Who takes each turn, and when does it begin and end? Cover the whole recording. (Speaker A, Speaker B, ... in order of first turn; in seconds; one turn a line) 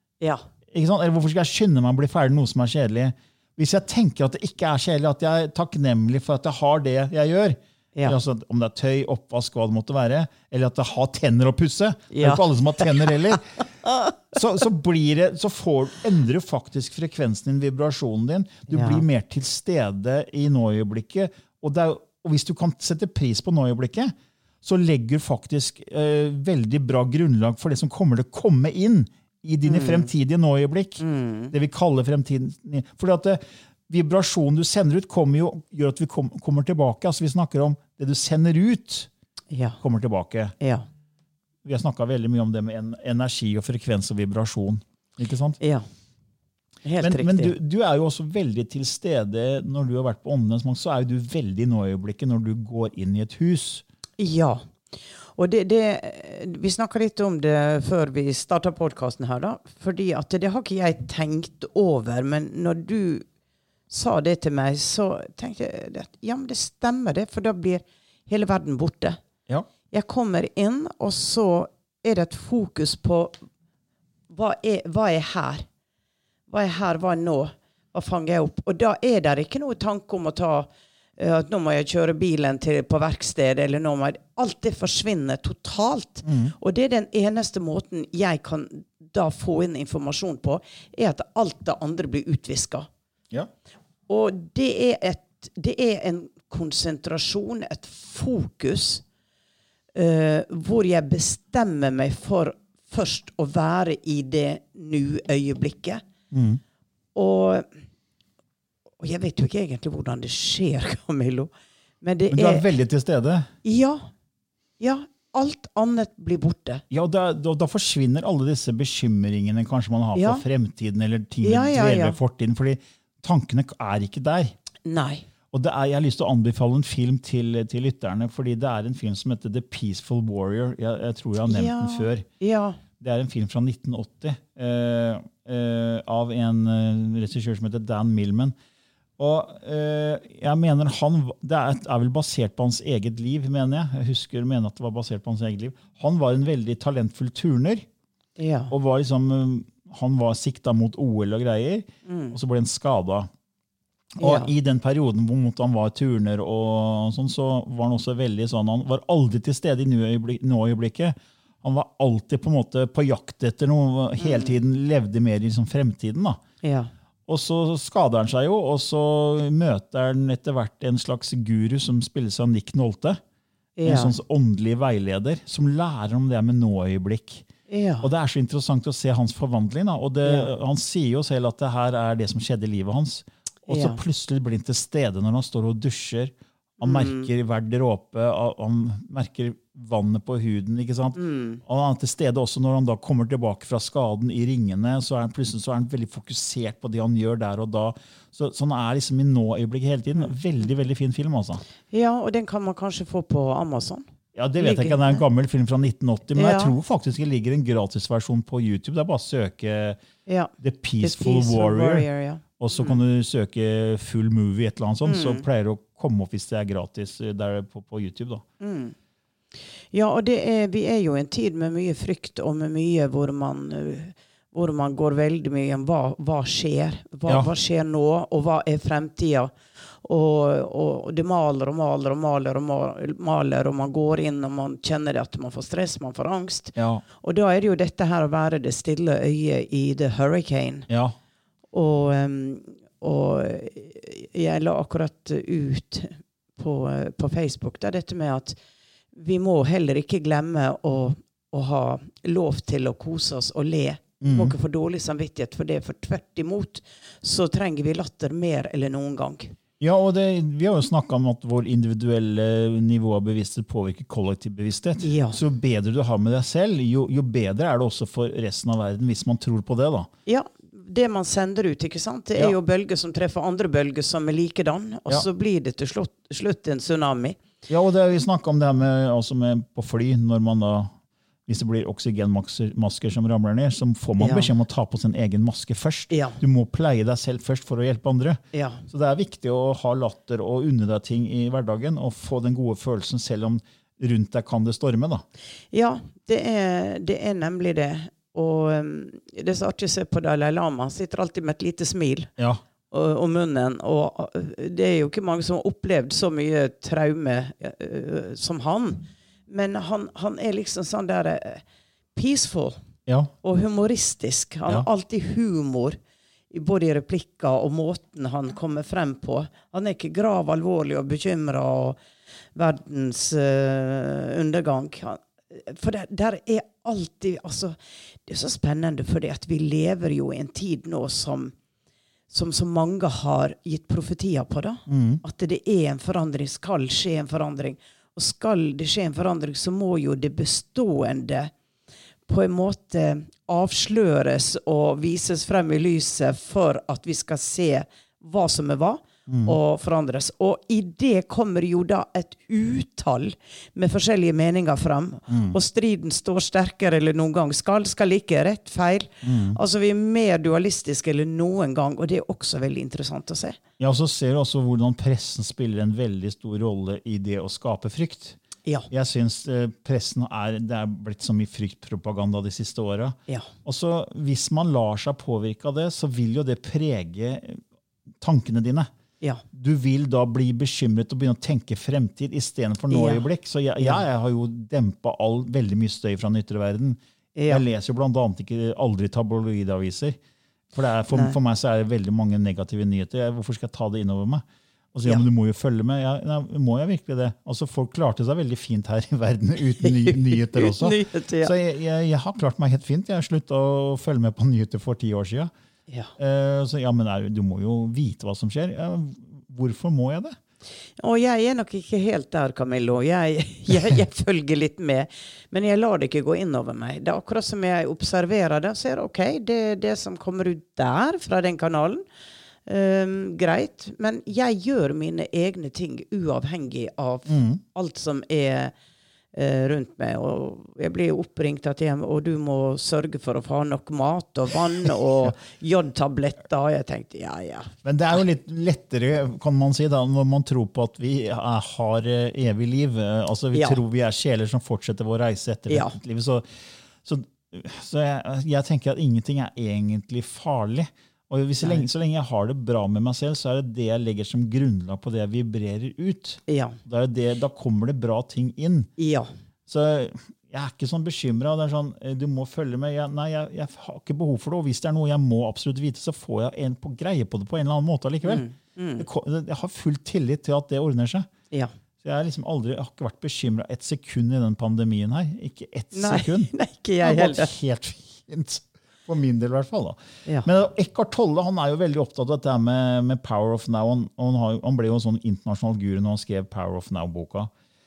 Speaker A: 0.7-13.6
Speaker B: 12.1-13.1
Speaker B: 13.8-14.1
Speaker A: 14.3-39.1
Speaker B: 18.7-19.0
Speaker B: 29.6-30.1
Speaker B: 31.0-31.5
Speaker B: 39.5-39.8
Speaker A: 39.8-40.5
Speaker B: 40.6-40.9
Speaker A: 41.6-45.6
Speaker B: 45.6-45.9
Speaker B: 46.8-47.5
Speaker A: 47.0-53.8
Speaker B: 54.2-63.3
Speaker B: 63.9-69.2
Speaker B: 69.9-73.4
Speaker B: 74.3-75.7
Speaker B: 76.5-92.9
Speaker A: 86.2-86.5
Speaker B: 94.1-99.0
Speaker B: 100.0-106.0
Speaker A: 106.3-106.6
Speaker B: 107.2-107.7
Speaker B: 109.0-111.5
Speaker B: 112.0-112.7
Speaker A: 112.3-113.5
Speaker B: 113.6-114.1
Speaker B: 114.8-116.8
Speaker A: 116.9-124.5
Speaker B: 120.2-120.4
Speaker B: 121.4-122.2
Speaker B: 124.8-125.2
Speaker A: 125.5-132.3
Speaker B: 131.5-132.8
Speaker A: 133.0-138.6
Speaker A: 139.2-147.9
Speaker B: 148.4-148.7
Speaker A: 148.7-153.3
Speaker B: 152.1-152.4
Speaker B: 154.2-154.5
Speaker A: 154.2-166.4
Speaker B: 164.2-164.5
Speaker B: 166.6-166.9
Speaker A: 167.3-173.2
Speaker B: 173.8-174.2
Speaker A: 173.8-177.5
Speaker B: 177.7-178.1
Speaker A: 178.0-201.6
Speaker B: 180.2-180.5
Speaker B: 183.7-184.0
Speaker B: 186.8-187.3
Speaker B: 191.2-191.6
Speaker B: 201.9-204.1
Speaker A: 204.3-210.0
Speaker B: 204.6-205.2
Speaker B: 206.3-206.7
Speaker B: 210.3-213.0
Speaker A: 210.6-212.1
Speaker A: 212.6-218.4
Speaker B: 215.0-215.4
Speaker B: 218.6-218.9
Speaker B: 219.9-240.9
Speaker A: 236.8-237.0
Speaker A: 240.9-241.2
Speaker B: 241.7-248.6
Speaker B: 249.1-259.6
Speaker A: 254.2-254.6
Speaker A: 259.8-270.1
Speaker B: 265.0-265.4
Speaker B: 270.3-277.4
Speaker A: 277.7-280.9
Speaker A: 281.5-295.2
Speaker B: 284.2-284.5
Speaker B: 286.1-286.4
Speaker B: 288.5-288.8
Speaker B: 295.7-302.3
Speaker B: 302.9-311.6
Speaker B: 312.1-312.8
Speaker A: 313.1-313.3
Speaker B: 313.4-316.0
Speaker B: 316.5-322.0
Speaker B: 322.6-331.6
Speaker B: 332.3-341.5
Speaker A: 334.9-335.2
Speaker B: 342.3-363.6
Speaker A: 349.3-349.6
Speaker A: 355.3-355.6
Speaker A: 359.2-359.6
Speaker A: 363.8-368.4
Speaker A: 368.9-377.6
Speaker A: 378.2-378.9
Speaker A: 379.5-390.2
Speaker B: 382.9-383.2
Speaker B: 387.4-387.6
Speaker A: 390.7-405.5
Speaker B: 391.1-391.4
Speaker B: 399.8-401.5
Speaker A: 406.2-410.4
Speaker B: 411.0-422.0
Speaker B: 422.7-428.7
Speaker A: 427.3-427.6
Speaker B: 429.3-437.8
Speaker A: 437.8-458.9
Speaker B: 443.5-443.8
Speaker B: 445.7-446.0
Speaker B: 451.6-451.9
Speaker B: 456.5-456.8
Speaker B: 459.0-459.3
Speaker A: 459.7-468.4
Speaker B: 468.2-469.1
Speaker A: 469.0-471.3
Speaker A: 472.0-476.5
Speaker B: 475.9-477.5
Speaker A: 477.0-487.5